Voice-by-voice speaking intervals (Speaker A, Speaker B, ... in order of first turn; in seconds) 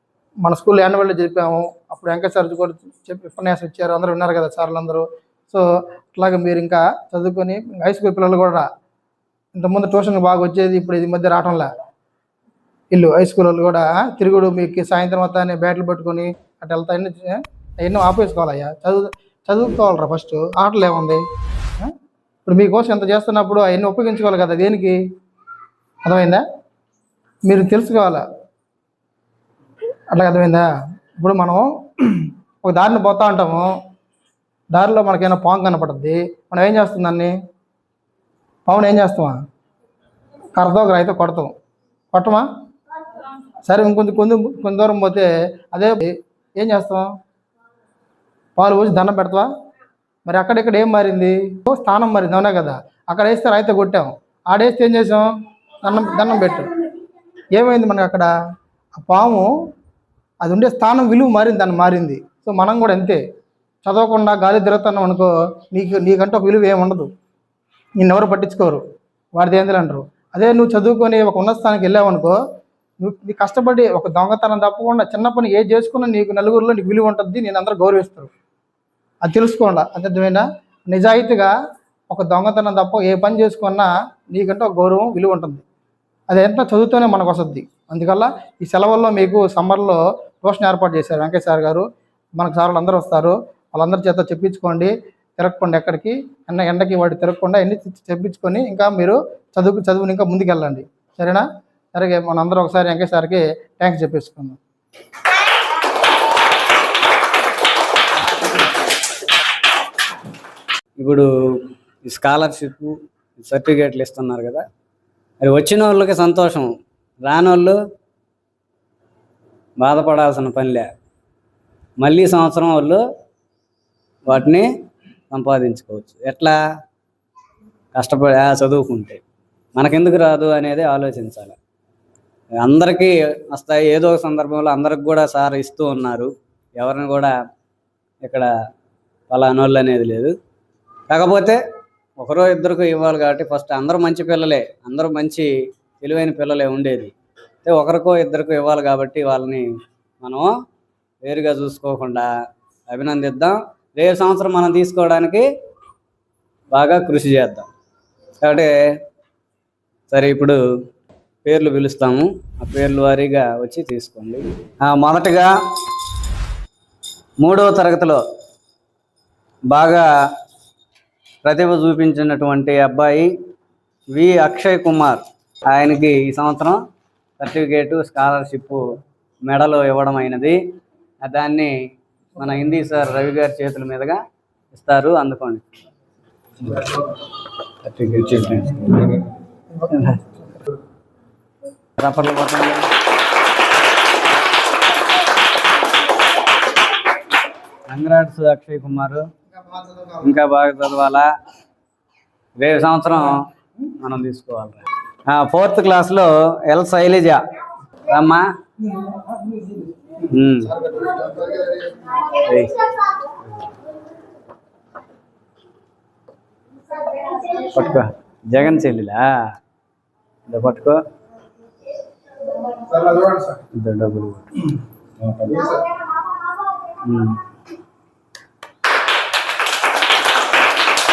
Speaker A: 0.4-5.6, 6.1-8.7, 9.5-11.7, 12.9-21.2, 22.4-25.0, 26.0-26.4, 27.5-28.2, 30.1-30.6, 31.2-33.7, 34.7-37.3, 38.7-39.4, 40.5-41.5, 42.1-42.4, 43.7-47.1, 48.6-49.5, 50.2-55.3, 55.8-56.7, 57.5-58.3, 59.0-59.5, 60.4-63.2, 63.8-67.1, 68.0-68.8, 69.4-72.3, 73.0-78.3, 79.2-81.5, 82.1-85.6, 86.3-91.8, 92.4-101.4, 101.9-104.6, 189.7-190.6, 199.5-200.3, 209.1-209.7, 210.7-212.0, 222.9-223.6, 225.4-225.8
Speaker B: 111.0-111.3, 112.0-112.9, 113.4-114.6, 115.4-116.7, 117.2-117.8, 119.8-120.8, 122.0-123.0, 124.3-124.7, 125.3-126.6, 128.0-129.2, 129.8-131.6, 132.6-137.3, 139.3-140.3, 141.1-141.6, 142.2-145.5, 146.0-147.1, 147.6-149.6, 150.2-150.5, 151.2-152.3, 152.9-155.4, 156.7-157.7, 158.4-158.7, 160.1-160.6, 161.4-165.5, 167.4-168.2, 169.7-170.0, 171.4-173.3, 174.1-176.8, 177.4-178.8, 179.4-180.6, 181.2-181.7, 182.4-184.2, 184.7-185.6, 186.7-187.0, 187.8-189.2, 192.0-192.9, 197.9-199.2, 200.2-201.2, 202.6-207.4, 208.1-208.4, 210.2-210.7, 212.2-213.7, 217.1-219.3, 220.5-221.0, 223.8-224.5, 227.0-227.4